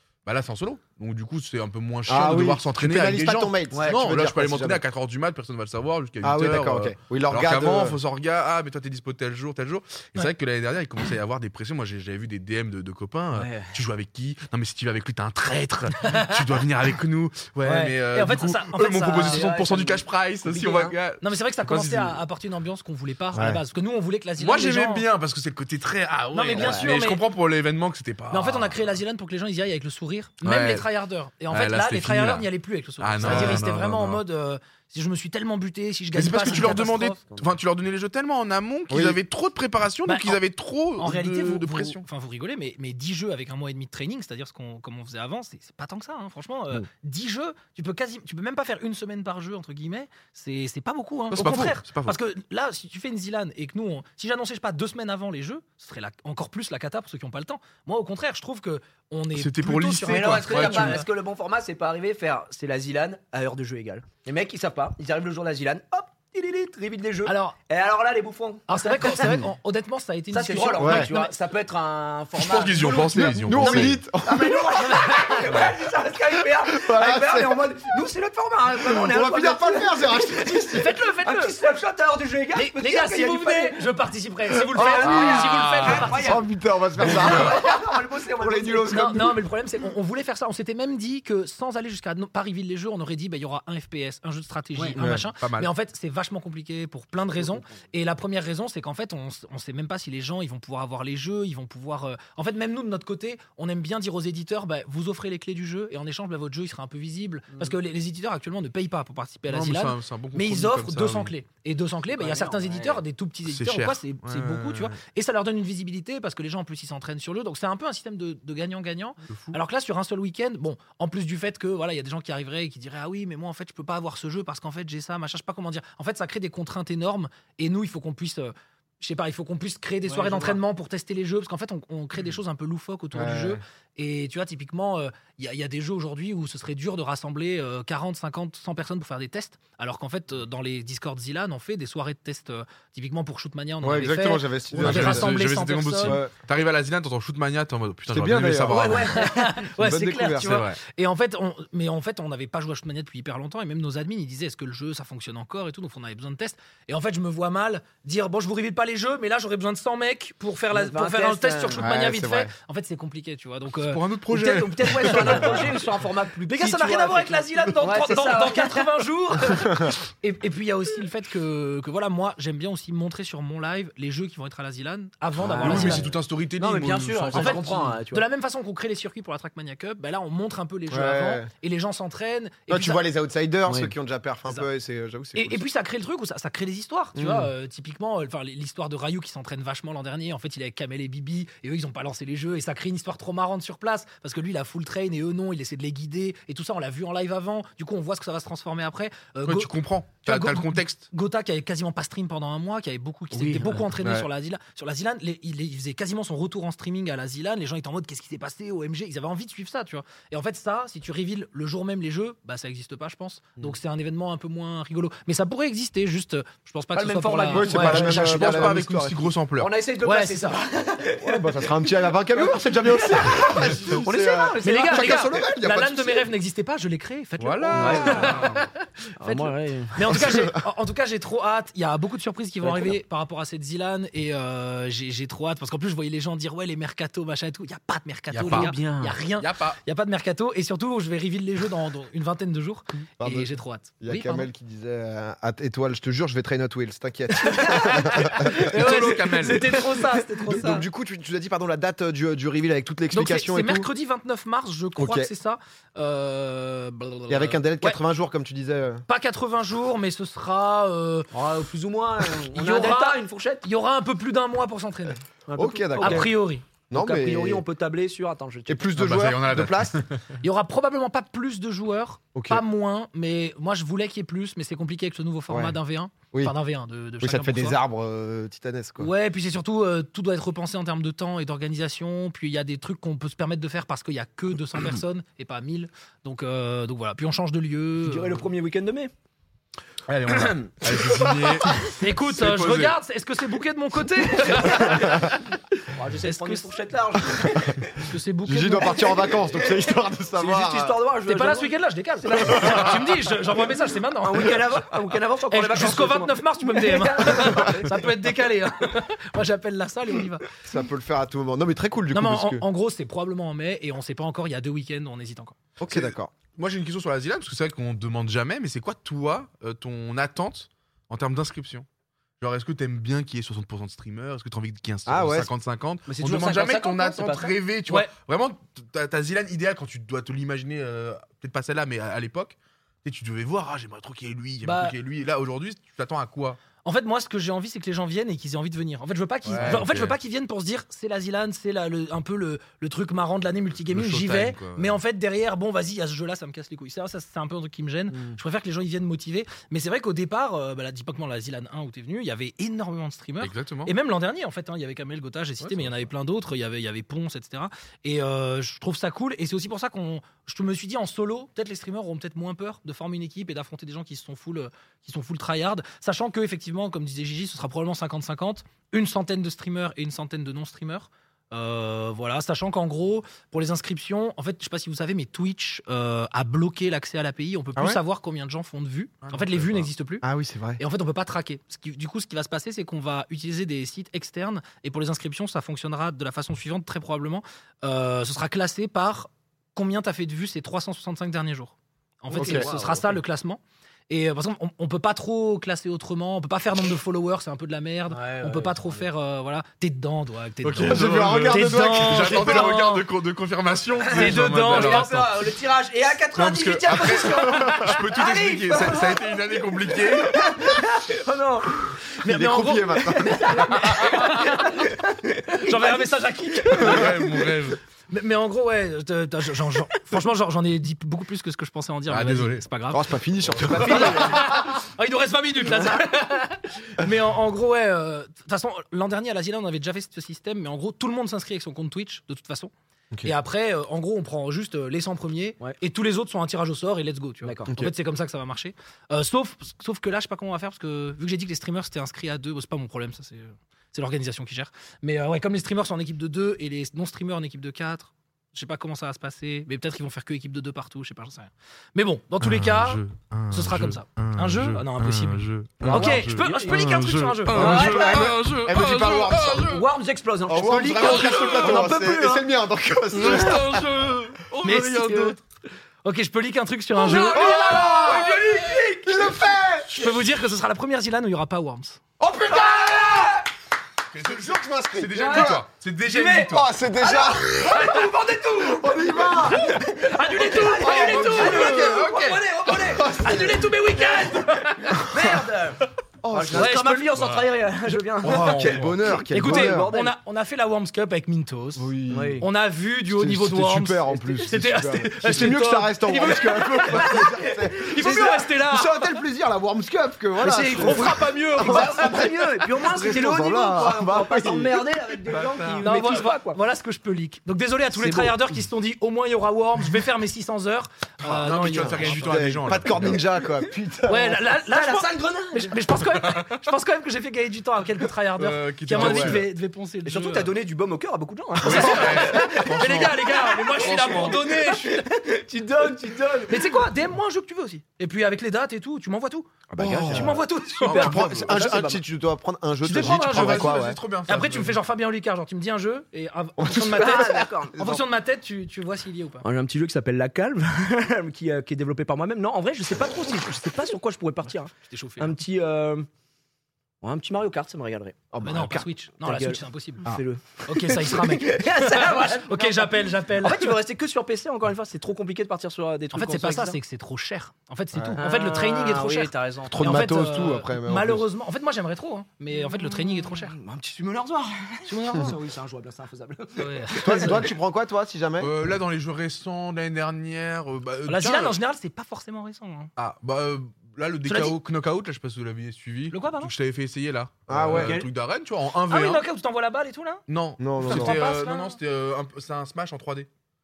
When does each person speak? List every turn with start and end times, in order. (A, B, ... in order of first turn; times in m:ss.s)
0:00.2-0:22.2 A
0:02.1-0:04.8 B
0:03.7-0:04.0 C
0:06.2-0:08.0 B
0:13.3-0:13.7 C
0:16.0-0:16.4 D
0:17.6-0:19.5 D
0:19.2-0:20.9 C
0:21.2-0:25.0 D
0:23.3-0:23.6 B
0:24.4-0:28.8 A
0:26.3-0:27.2 D
0:26.5-0:26.9 C
0:28.3-0:37.2 D
0:30.4-0:30.9 A
0:31.5-0:32.5 A
0:33.0-0:34.2 A
0:33.2-0:33.6 B
0:36.1-0:42.0 A
0:38.9-0:39.2 B
0:40.0-0:40.4 D
0:41.0-1:01.1 D
0:51.3-0:52.2 A
0:59.4-1:01.0 A
1:00.0-1:09.3 C
1:07.2-1:07.6 D
1:08.7-1:11.3 D
1:10.3-1:23.8 C
1:10.8-1:11.1 B
1:12.4-1:14.0 A
1:13.0-1:15.3 B
1:15.0-1:15.4 D
1:16.6-1:18.0 B
1:18.7-1:20.9 B
1:20.7-1:21.6 D
1:22.5-1:26.4 D
1:24.8-1:25.3 B
1:24.8-1:26.4 C
1:25.0-1:26.1 A
1:26.1-1:29.4 B
1:27.0-1:29.1 C
1:27.1-1:27.5 A
1:28.8-2:26.2 D
1:35.0-1:35.2 B
1:35.4-1:35.7 A
1:49.5-1:51.3 A
1:52.1-1:53.0 C
1:53.5-1:55.0 A
1:59.3-1:59.6 A
2:10.1-2:10.6 C
2:13.1-2:13.6 B
2:23.8-2:25.4 B
2:24.8-2:29.2 A
2:26.0-2:26.3 B
2:28.1-2:30.6 B
2:28.7-2:29.5 C
2:29.1-2:44.0 D
2:30.4-2:30.8 A
2:40.7-2:41.8 C
2:41.8-2:42.5 B
2:43.8-2:45.8 A
2:44.3-2:48.9 C
2:45.1-2:45.6 D
2:46.4-2:56.1 D
2:55.4-2:58.2 C
2:55.6-2:57.8 A
2:57.3-3:03.0 D
3:00.9-3:01.5 B
3:02.7-3:05.6 B
3:03.7-3:03.9 C
3:05.4-3:19.7 D
3:07.2-3:07.5 B
3:19.4-3:21.0 A
3:20.2-3:38.7 D
3:23.3-3:23.8 C
3:36.9-3:38.4 C
3:37.5-3:39.3 B
3:37.8-3:39.7 A
3:39.6-3:41.7 C
3:40.0-3:40.6 D
3:41.2-3:46.3 B
3:42.3-3:45.4 C
3:44.6-4:04.5 D
3:47.4-3:48.5 A
3:47.7-3:48.6 C
3:49.2-3:50.3 C
3:50.2-3:50.6 B
3:52.6-3:52.9 C
3:58.3-3:58.7 A
3:58.4-3:59.2 C
3:59.4-3:59.8 A
4:03.2-4:08.7 B
4:07.4-4:10.6 C
4:07.8-4:10.9 D
4:08.4-4:09.7 A
4:10.5-4:13.9 B
4:13.1-4:18.0 D
4:15.0-4:15.3 B
4:17.3-4:19.0 B
4:19.1-4:21.3 D
4:21.3-4:23.6 C
4:22.5-4:25.2 D
4:25.5-4:26.3 C
4:25.6-4:26.3 B
4:26.0-4:26.6 D
4:26.9-4:27.6 B
4:26.9-4:28.9 C
4:28.7-4:30.0 B
4:29.0-4:30.2 A
4:30.4-4:37.8 D
4:32.4-4:32.6 B
4:35.5-4:35.8 B
4:37.2-4:39.1 B
4:39.0-4:48.5 D
4:48.0-4:49.1 C
4:50.1-4:53.0 A
4:50.3-4:50.6 C
4:51.8-4:55.5 D
4:55.9-4:58.0 C
4:56.2-4:56.7 D
4:57.4-4:57.7 B
4:57.4-4:59.3 D
4:58.4-5:01.0 B
5:00.4-5:03.2 C
5:01.2-5:04.8 D
5:04.2-5:08.1 C
5:05.5-5:10.5 D
5:10.6-5:12.6 B
5:12.1-5:15.6 D
5:15.8-5:16.3 B
5:15.9-5:21.9 A
5:22.4-5:36.6 A
5:25.1-5:25.5 B
5:26.1-5:27.5 C
5:34.6-5:34.9 D
5:36.8-6:20.2 D
5:39.5-5:40.2 A
5:39.5-5:39.8 C
5:43.9-5:45.0 A
5:48.1-5:48.4 C
5:53.4-5:53.9 A
6:19.2-6:19.9 A
6:20.2-6:20.8 B
6:20.8-6:43.0 D
6:32.3-6:33.2 C
6:32.3-6:32.7 B
6:38.1-6:39.0 C
6:40.6-6:45.3 A
6:40.8-6:42.7 B
6:44.0-6:51.7 C
6:44.1-6:45.3 D
6:46.3-6:50.6 A
6:52.2-6:54.9 D
6:52.2-6:53.8 B
6:53.2-6:57.1 C
6:55.5-6:57.3 D
6:56.7-6:57.8 A
6:58.1-7:03.1 D
7:02.1-7:02.6 A
7:02.9-7:04.4 B
7:03.6-7:04.5 C
7:03.8-7:12.7 D
7:13.2-7:38.0 D
7:17.4-7:17.7 C
7:32.4-7:39.9 A
7:35.8-7:36.1 B
7:35.9-7:36.8 C
7:37.5-7:39.7 B
7:37.5-7:38.3 C
7:39.7-7:42.4 C
7:40.5-7:43.9 B
7:40.9-7:41.9 A
7:43.1-7:45.4 A
7:43.1-7:43.6 C
7:44.6-7:45.4 D
7:46.0-7:47.7 D
7:47.0-7:49.5 C
7:47.0-7:48.3 B
7:47.4-7:48.9 A
7:49.0-7:50.0 B
7:49.9-7:52.0 D
7:52.2-7:53.3 B
7:52.4-7:53.4 C
7:54.1-7:56.7 A
7:54.2-7:55.6 B
7:55.1-8:04.4 C
7:56.5-7:58.0 B
7:58.6-7:59.7 B
7:59.5-8:01.8 D
8:00.8-8:02.1 B
8:00.8-8:02.8 A
8:02.8-8:03.7 B
8:03.2-8:05.2 D
8:05.0-8:10.1 C
8:06.2-8:06.8 B
8:06.5-8:07.2 D
8:07.1-8:07.5 A
8:08.2-8:09.0 A
8:08.2-8:09.9 B
8:09.3-8:19.1 D
8:11.8-8:12.4 B
8:12.1-8:12.4 C
8:13.1-8:24.9 B
8:16.3-8:18.4 C
8:20.4-8:22.9 D
8:20.5-8:26.6 C
8:25.3-8:25.8 A
8:25.8-8:32.4 D
8:27.9-8:28.4 C
8:31.2-8:33.2 A
8:31.7-8:34.5 B
8:34.1-8:40.5 D
8:34.7-8:35.8 C
8:38.4-8:39.5 A
8:39.0-8:39.4 C
8:40.0-8:46.8 C
8:41.6-8:45.1 D
8:41.6-8:44.4 A
8:46.5-8:49.5 D
8:49.7-8:52.0 C
8:49.8-8:54.0 B
8:50.1-8:51.1 D
8:50.8-8:51.6 A
8:52.8-8:59.4 D
8:52.9-8:54.8 A
8:56.6-8:57.8 C
8:57.8-8:58.0 B
8:59.4-9:06.1 C
9:04.8-9:05.4 D
9:07.0-9:16.8 C
9:08.3-9:08.8 B
9:08.4-9:10.1 D
9:10.6-9:13.8 D
9:16.1-9:23.6 D
9:17.9-9:18.2 B
9:18.2-9:20.2 C
9:19.7-9:21.2 B
9:22.5-9:27.5 C
9:24.9-9:25.4 D
9:26.6-9:27.4 D
9:27.0-9:28.6 B
9:28.4-9:31.6 A
9:31.1-9:32.9 D
9:33.0-9:39.2 A
9:34.3-9:34.6 D
9:36.1-9:36.5 D
9:37.5-9:38.0 B
9:37.7-9:38.1 C
9:38.9-9:40.2 D
9:40.3-9:43.3 A
9:40.6-9:41.2 B
9:40.8-9:41.8 D